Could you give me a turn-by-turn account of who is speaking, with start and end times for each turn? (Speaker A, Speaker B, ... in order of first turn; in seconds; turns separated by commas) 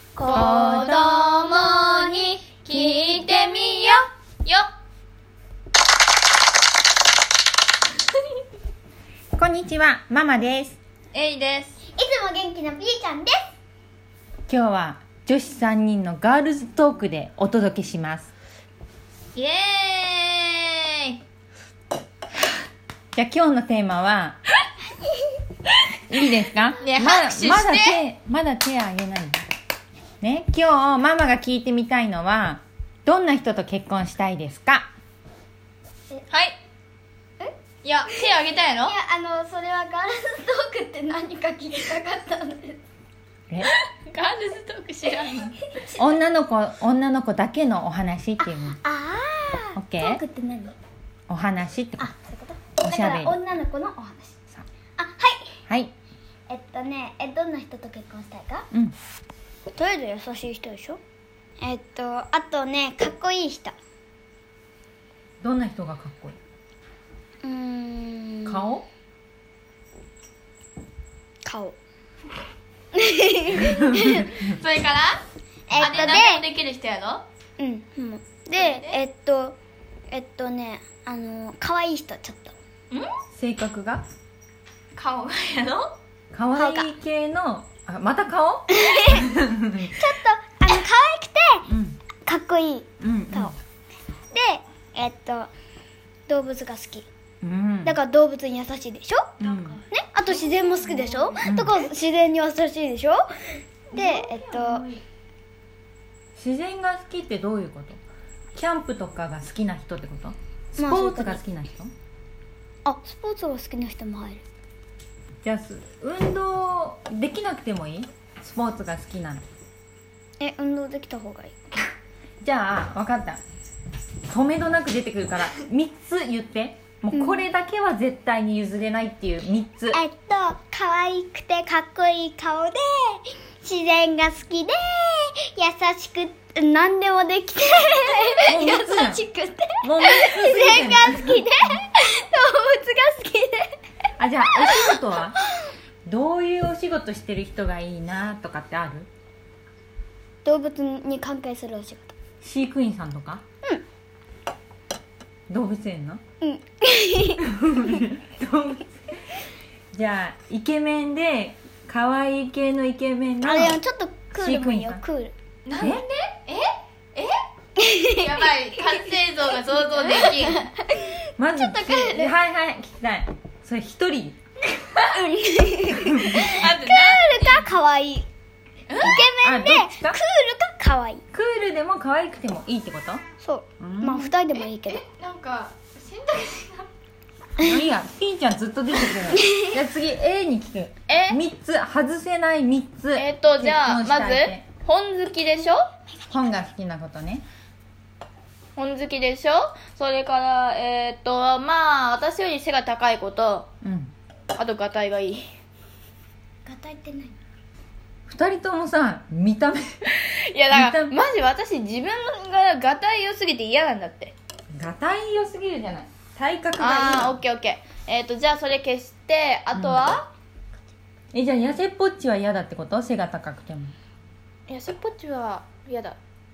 Speaker A: 0.2-4.7, Speaker B: 0.3-1.2, Speaker B: 9.4-10.8, Speaker A: 11.1-11.8, Speaker C: 11.9-13.4, Speaker B: 14.5-18.3, Speaker A: 19.3-21.2, Speaker B: 23.1-24.4, Speaker B: 26.1-29.5, Speaker A: 26.8-28.0, Speaker B: 30.2-34.9, Speaker A: 36.3-36.6, Speaker A: 37.8-39.0, Speaker C: 38.8-42.8, Speaker A: 43.6-45.6, Speaker C: 45.7-46.2, Speaker B: 46.0-48.8, Speaker C: 48.4-50.8, Speaker B: 49.8-50.2, Speaker B: 51.3-52.1, Speaker C: 52.0-54.4, Speaker B: 52.8-53.4, Speaker C: 55.0-55.6, Speaker B: 55.7-55.9, Speaker C: 56.5-58.7, Speaker C: 59.7-61.0, Speaker C: 61.6-63.8, Speaker B: 65.4-66.4, Speaker C: 67.4-68.7, Speaker B: 68.5-68.8, Speaker C: 71.4-71.8, Speaker C: 72.9-74.3, Speaker A: 74.1-75.2, Speaker C: 75.7-76.4, Speaker A: 75.8-77.2, Speaker C: 77.6-79.6, Speaker A: 78.5-79.0, Speaker C: 80.1-82.5, Speaker B: 83.3-84.0, Speaker A: 85.0-85.9, Speaker B: 86.3-89.9, Speaker C: 86.5-86.9, Speaker C: 88.7-89.3, Speaker C: 89.8-91.7, Speaker B: 91.7-92.0, Speaker C: 92.2-93.5, Speaker B: 93.0-93.5, Speaker C: 94.3-95.5, Speaker C: 96.3-97.1, Speaker B: 97.4-98.0, Speaker C: 97.8-103.3, Speaker B: 99.4-99.8, Speaker A: 100.3-101.4, Speaker B: 101.4-101.8, Speaker C: 103.9-104.8, Speaker B: 103.9-105.0, Speaker B: 106.3-108.0, Speaker B: 108.5-111.9, Speaker C: 110.8-111.4, Speaker C: 112.8-114.4, Speaker B: 115.4-119.4, Speaker C: 120.4-121.6, Speaker B: 122.4-123.4, Speaker B: 124.3-130.0, Speaker C: 127.1-127.5, Speaker C: 129.9-143.7, Speaker B: 138.5-139.2, Speaker B: 139.8-141.5, Speaker B: 144.2-145.3, Speaker C: 144.5-144.9, Speaker B: 146.1-149.1, Speaker C: 150.4-152.1, Speaker B: 152.4-153.4, Speaker B: 155.5-156.2, Speaker C: 156.4-157.4, Speaker B: 157.4-158.9, Speaker B: 159.9-163.8, Speaker C: 163.4-165.3, Speaker B: 164.3-165.0, Speaker A: 165.7-167.4, Speaker C: 167.8-169.1, Speaker A: 168.2-170.7, Speaker C: 169.7-172.3, Speaker B: 171.4-174.4, Speaker C: 175.1-178.3, Speaker B: 176.1-176.5, Speaker A: 176.3-177.6, Speaker A: 178.9-179.2, Speaker C: 179.0-181.2, Speaker B: 179.4-180.2, Speaker B: 181.3-183.2, Speaker C: 183.4-185.0, Speaker B: 183.8-184.3, Speaker A: 184.6-186.9, Speaker B: 187.6-194.6, Speaker C: 189.3-189.7, Speaker A: 191.1-191.4, Speaker A: 193.2-195.9, Speaker B: 196.3-197.4, Speaker A: 198.8-203.7, Speaker B: 203.8-204.1, Speaker A: 204.5-205.5, Speaker C: 206.6-207.4, Speaker B: 208.3-209.8, Speaker A: 210.1-214.3, Speaker B: 210.7-211.1, Speaker B: 214.7-217.3, Speaker A: 216.8-220.3, Speaker B: 219.7-220.1, Speaker B: 221.3-223.9, Speaker A: 224.7-226.2